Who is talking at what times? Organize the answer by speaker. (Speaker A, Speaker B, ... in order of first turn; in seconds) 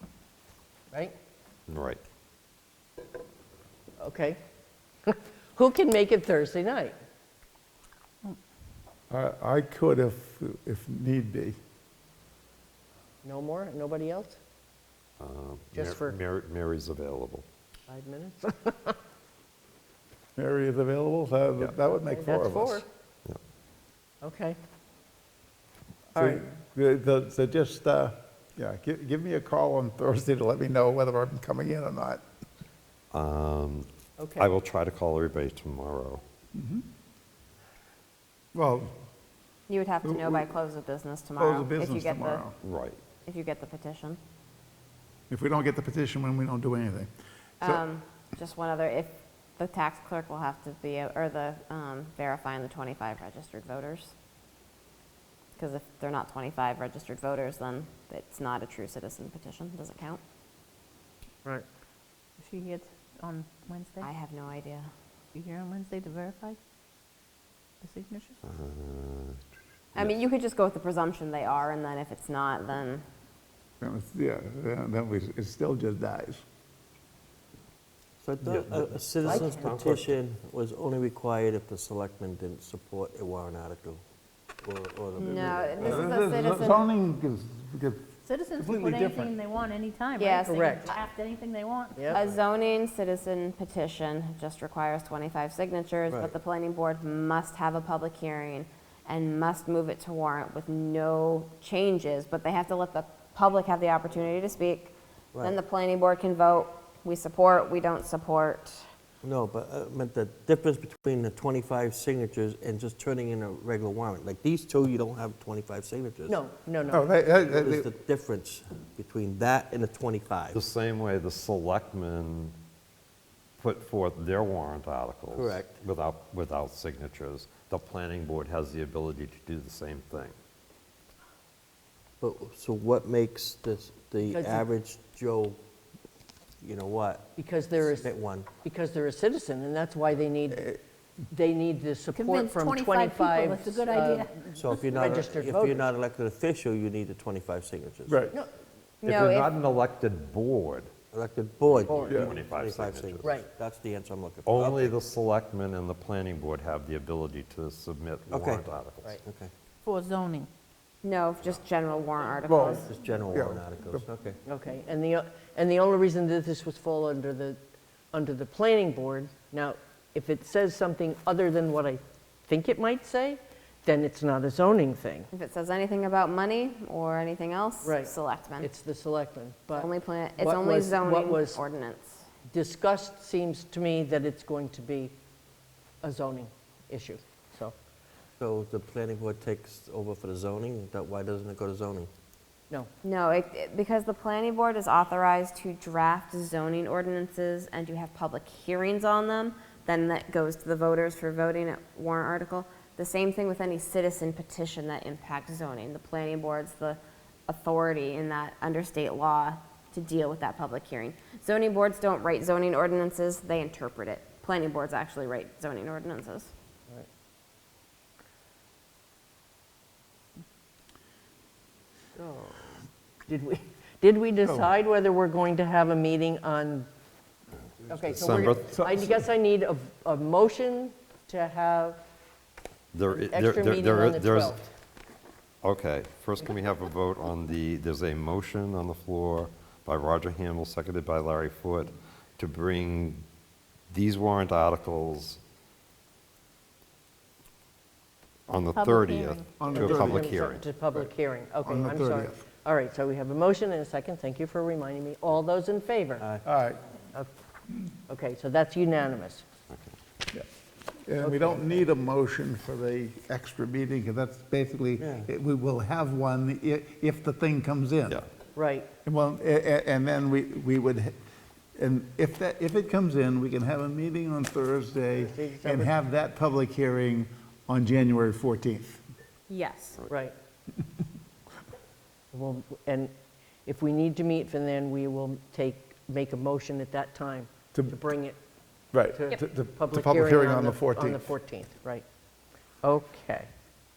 Speaker A: 1.7-2.0, 15.2-17.4, 33.1-36.2, 42.6-43.0, 68.4-69.4, 78.4-80.2, 120.5-122.5, 123.6-130.3, 149.0-150.9, 152.1-153.3, 154.4-159.2, 228.1-228.8, 232.9-234.6, 235.6-243.2, 243.9-245.4, 248.5-250.7
Speaker B: 4.0-4.4, 5.0-7.0, 13.2-14.4, 15.7-16.2, 17.9-19.0, 22.1-22.8, 24.2-24.6, 26.1-26.4, 34.2-34.5, 90.5-90.9, 116.3-117.1, 134.2-134.6, 137.3-138.1, 138.6-140.7, 141.3-145.9, 151.8-152.3, 164.4-167.6, 168.1-175.3, 177.8-181.6, 182.5-185.1, 186.0-187.7, 222.2-226.9, 227.9-232.0, 233.1-234.7, 249.7-256.2, 258.1-259.4, 261.2-261.8, 268.5-268.9, 275.2-275.9, 280.1-280.3, 282.3-283.1, 283.6-288.4, 289.1-292.0, 292.8-293.5
Speaker C: 9.1-11.6, 20.4-22.8, 26.1-32.2, 36.5-36.8, 38.5-38.9, 40.0-40.5, 41.4-42.5, 45.3-47.1, 73.8-76.4, 85.2-89.3, 116.9-117.9, 140.5-140.8, 148.1-148.3, 152.1-152.3, 162.5-164.0, 224.4-224.7, 228.6-229.2, 249.6-250.4, 251.6-252.4, 256.4-256.8, 261.1-268.2, 269.0-271.1, 271.8-279.0, 288.9-291.2
Speaker D: 39.7-42.4, 43.2-44.2, 47.6-54.1, 55.6-60.2, 64.0-64.9, 69.9-73.0, 85.2-86.9, 90.2-91.0, 92.1-108.8, 149.0-149.5, 161.0-162.9, 175.3-178.7, 179.7-182.3, 193.0-216.5, 279.5-280.0
Speaker E: 62.4-64.1, 65.3-66.6, 67.8-68.3, 79.3-79.7, 88.2-92.3, 142.1-144.8, 159.8-160.5, 248.7-249.6
Speaker F: 78.2-84.0, 84.6-86.2, 96.1-96.3, 109.2-116.4, 117.4-120.6, 125.3-125.7, 132.2-135.6, 136.6-138.5, 144.5-148.3, 151.1-155.0, 158.3-158.6, 159.2-159.5, 162.5-164.4, 188.4-192.1, 256.2-256.4, 265.0-265.3